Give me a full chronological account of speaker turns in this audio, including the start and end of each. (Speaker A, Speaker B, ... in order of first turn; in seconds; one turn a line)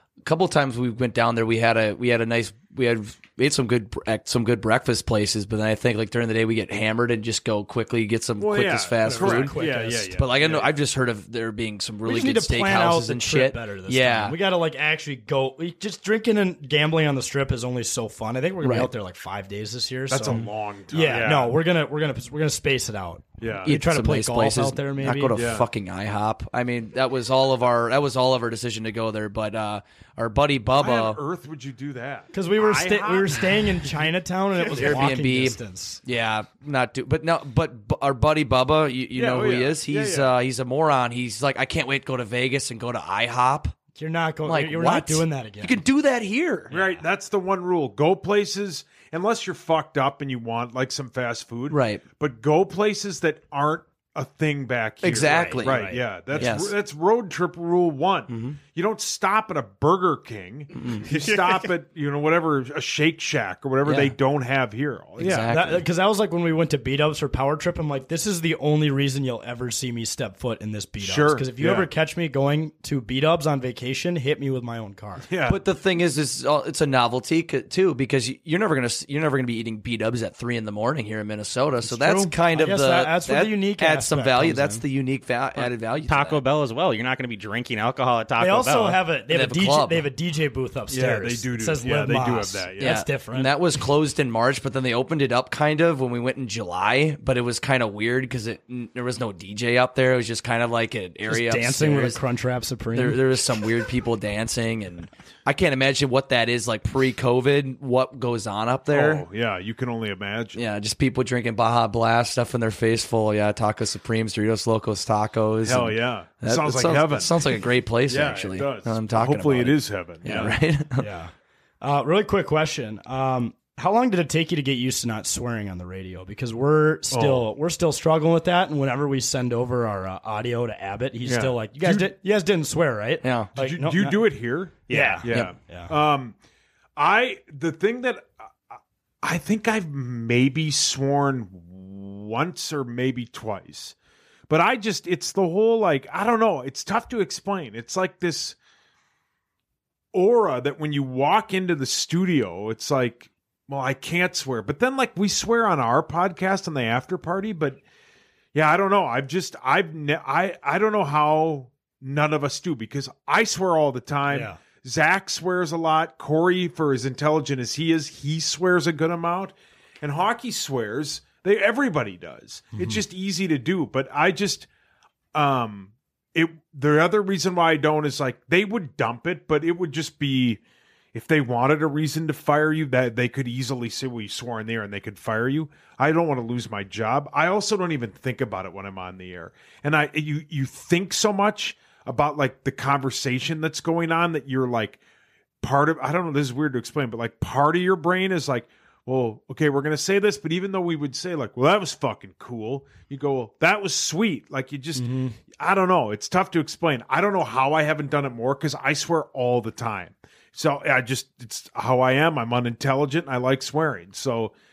Speaker A: 0.2-9.6
Speaker B: 8.4-10.7
Speaker C: 9.0-10.2
Speaker A: 10.1-14.3
Speaker C: 12.0-25.4
Speaker A: 18.6-18.9
Speaker B: 20.1-21.5
Speaker D: 21.1-21.4
Speaker B: 23.4-23.7
Speaker A: 23.6-31.2
Speaker B: 25.4-25.6
Speaker B: 30.8-34.1
Speaker C: 32.3-36.0
Speaker A: 34.7-43.8
Speaker B: 39.1-40.3
Speaker C: 44.0-45.8
Speaker A: 44.4-46.7
Speaker B: 46.7-65.5
Speaker C: 46.7-47.0
Speaker A: 51.7-52.0
Speaker A: 55.0-56.7
Speaker C: 55.1-56.5
Speaker A: 58.3-58.6
Speaker A: 60.7-61.1
Speaker D: 61.1-61.5
Speaker A: 63.8-64.1
Speaker A: 65.2-65.8
Speaker C: 65.5-75.3
Speaker B: 71.0-71.9
Speaker B: 75.2-75.6
Speaker A: 75.5-86.4
Speaker C: 81.8-84.8
Speaker D: 86.0-89.0
Speaker C: 88.4-93.5
Speaker A: 89.3-90.1
Speaker B: 90.9-93.0
Speaker A: 92.8-102.2
Speaker C: 101.3-103.2
Speaker A: 102.9-109.3
Speaker B: 108.9-110.6
Speaker A: 110.5-121.1
Speaker B: 115.6-117.5
Speaker B: 118.1-120.5
Speaker C: 121.0-135.9
Speaker B: 127.1-127.5
Speaker B: 131.2-132.1
Speaker A: 133.2-133.5
Speaker B: 133.6-136.3
Speaker D: 134.9-135.2
Speaker A: 135.3-135.5
Speaker B: 136.9-143.9
Speaker B: 144.5-148.6
Speaker B: 150.1-157.8
Speaker B: 158.5-174.7
Speaker C: 164.3-164.6
Speaker C: 172.8-173.0
Speaker B: 175.3-180.6
Speaker B: 181.1-195.0
Speaker B: 195.6-214.5
Speaker C: 204.9-205.3